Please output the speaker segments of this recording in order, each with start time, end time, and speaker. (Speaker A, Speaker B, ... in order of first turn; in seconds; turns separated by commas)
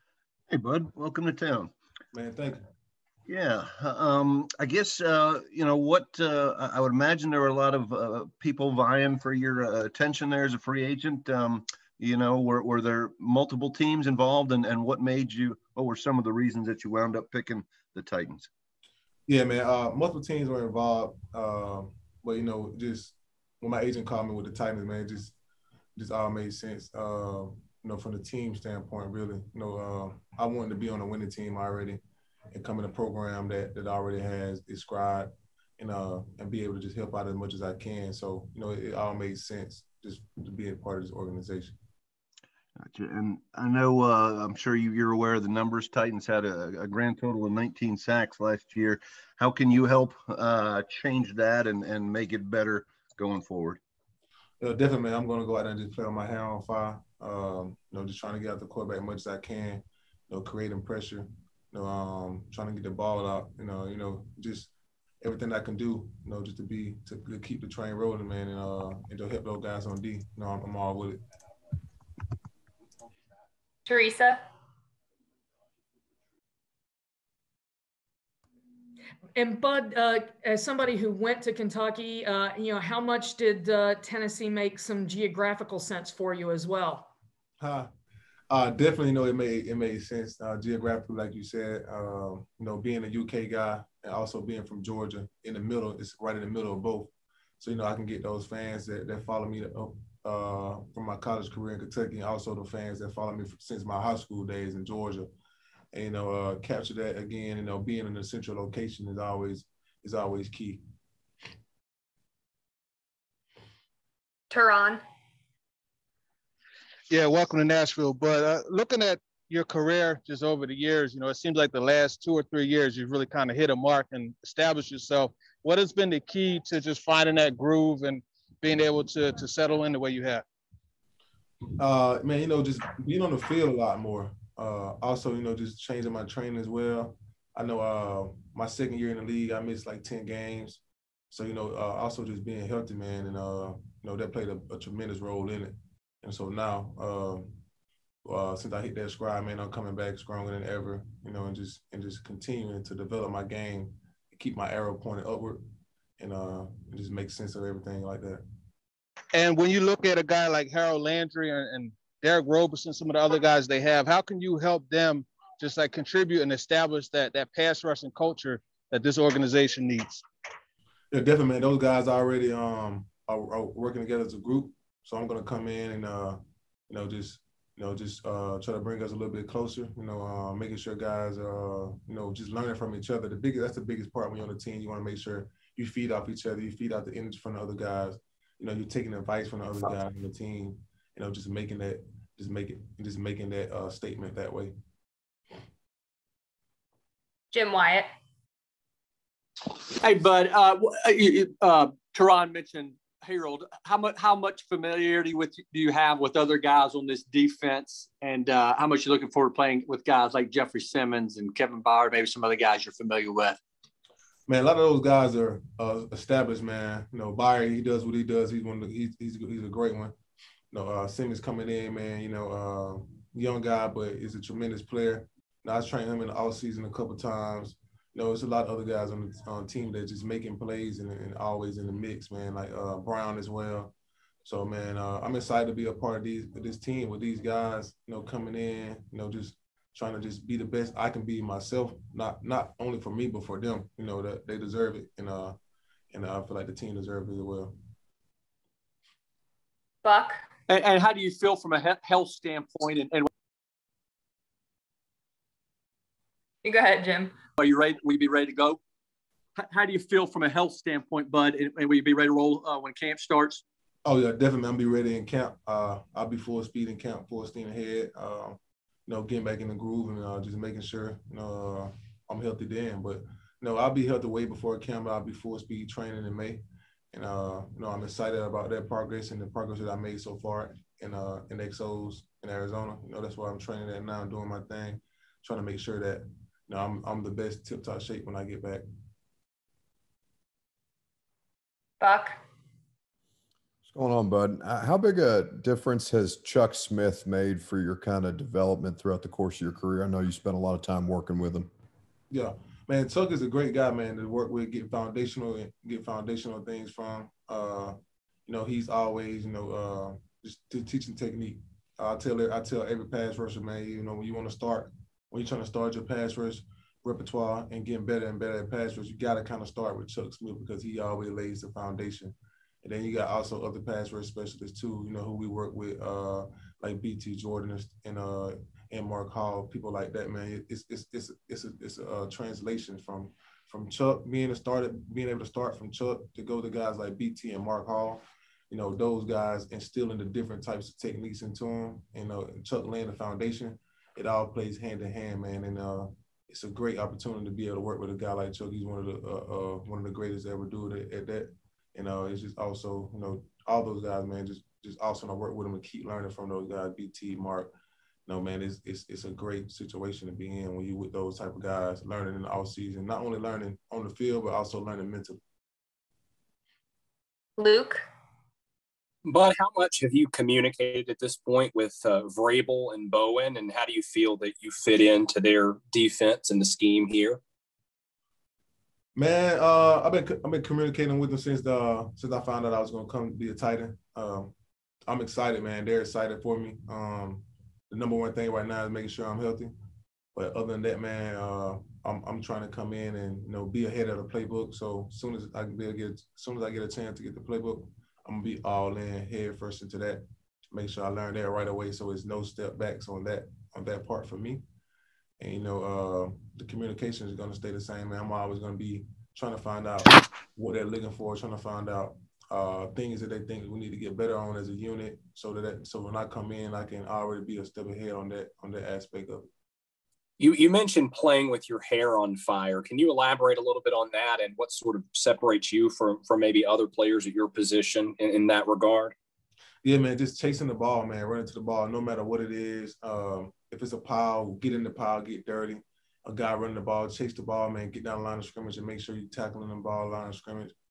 Speaker A: 0.5-1.7, Speaker B: 2.1-2.6, Speaker A: 3.3-18.5, Speaker B: 19.3-25.3, Speaker B: 25.9-32.0, Speaker B: 32.5-41.8, Speaker A: 42.9-53.8, Speaker B: 54.6-64.7, Speaker B: 65.2-71.2, Speaker C: 73.8-74.4, Speaker D: 79.3-87.1, Speaker B: 87.6-87.9, Speaker B: 88.5-105.3, Speaker B: 105.9-110.8, Speaker C: 114.5-115.0, Speaker E: 117.1-130.4, Speaker B: 131.8-147.6, Speaker B: 148.2-155.6, Speaker B: 156.2-158.4, Speaker E: 159.3-170.2, Speaker B: 171.1-194.7, Speaker C: 197.5-198.1, Speaker F: 199.9-213.6, Speaker B: 214.5-220.1, Speaker B: 220.7-233.9, Speaker B: 234.4-245.6, Speaker B: 246.1-247.7, Speaker C: 250.0-250.4, Speaker F: 250.7-253.3, Speaker C: 256.6-257.3, Speaker F: 257.6-258.8, Speaker F: 259.6-263.6, Speaker B: 264.0-276.6, Speaker B: 277.1-288.8, Speaker C: 292.0-292.4, Speaker G: 293.9-301.7, Speaker B: 302.3-307.9, Speaker B: 308.5-357.7, Speaker B: 358.3-365.4, Speaker C: 367.6-368.1, Speaker H: 369.2-377.4, Speaker B: 379.1-384.5, Speaker B: 385.1-389.7, Speaker B: 390.3-400.2, Speaker B: 400.7-404.6, Speaker B: 405.4-419.4, Speaker H: 420.4-429.1, Speaker B: 429.8-440.7